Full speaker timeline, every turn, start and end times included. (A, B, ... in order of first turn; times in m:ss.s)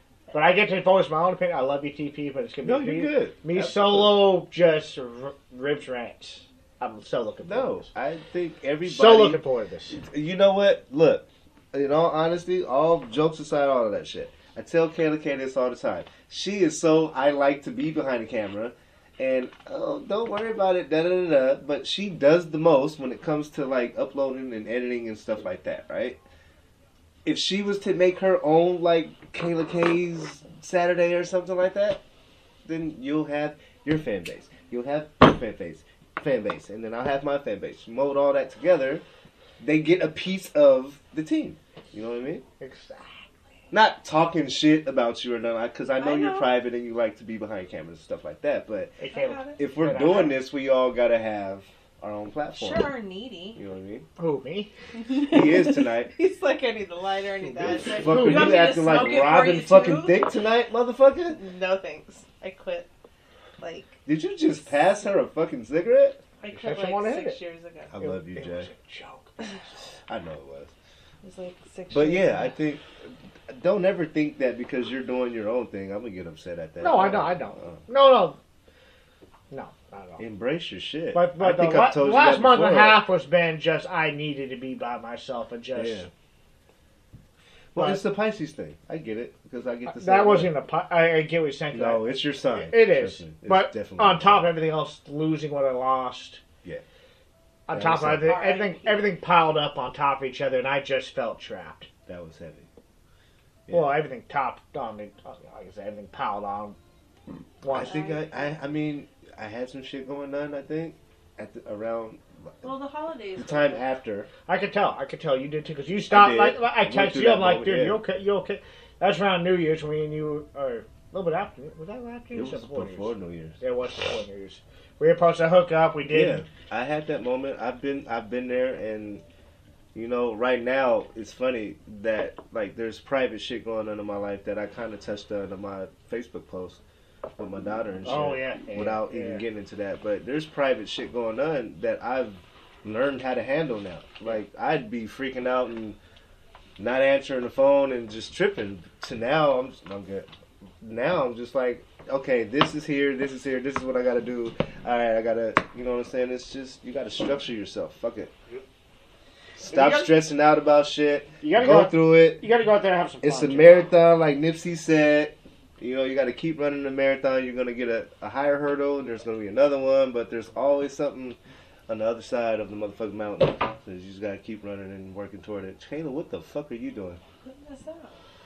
0:00.3-0:07.9 A
0:02.6-0:04.2 B
0:07.4-0:26.2 B
0:08.8-0:10.0 A
0:27.2-0:32.0 B
0:32.6-0:39.0 B
0:39.6-0:42.4 B
0:42.6-0:43.4 A
0:43.7-0:49.0 B
0:46.0-0:46.5 C
0:49.0-0:50.4 A
0:49.1-0:49.6 C
0:49.6-0:52.9 B
0:52.5-0:53.6 C
0:53.5-0:54.1 B
0:54.2-0:54.7 A
0:54.9-1:00.3 C
0:55.1-0:56.1 B
0:57.6-0:58.8 A
0:57.6-1:01.4 B
1:01.3-1:02.9 C
1:03.6-1:04.0 C
1:04.0-1:06.2 B
1:06.4-1:07.9 C
1:06.5-1:07.4 A
1:07.9-1:08.7 B
1:08.0-1:09.5 A
1:10.1-1:10.7 B
1:11.2-1:12.5 C
1:11.9-1:17.8 B
1:16.8-1:18.4 A
1:19.5-1:20.2 A
1:20.2-1:23.0 B
1:21.1-1:26.1 A
1:25.8-1:26.1 B
1:27.7-1:30.5 B
1:27.7-1:28.0 A
1:29.9-1:36.4 A
1:31.7-1:34.5 B
1:37.7-1:41.9 A
1:37.7-1:38.3 B
1:38.0-1:39.1 C
1:42.1-1:42.7 B
1:43.7-1:44.0 B
1:43.7-1:46.8 A
1:47.6-1:47.9 A
1:47.7-1:52.2 B
1:47.7-1:48.6 C
1:52.6-1:53.8 C
1:53.4-1:54.3 B
1:54.5-2:06.4 A
1:56.1-1:58.0 B
2:02.3-2:03.6 B
2:06.1-2:09.2 B
2:09.9-2:16.8 B
2:17.4-2:26.0 B
2:18.0-2:19.4 A
2:26.8-2:30.3 B
2:30.8-2:38.3 B
2:39.6-2:42.4 B
2:39.7-2:40.1 C
2:41.4-2:43.9 A
2:43.2-2:57.2 B
2:57.4-2:58.2 C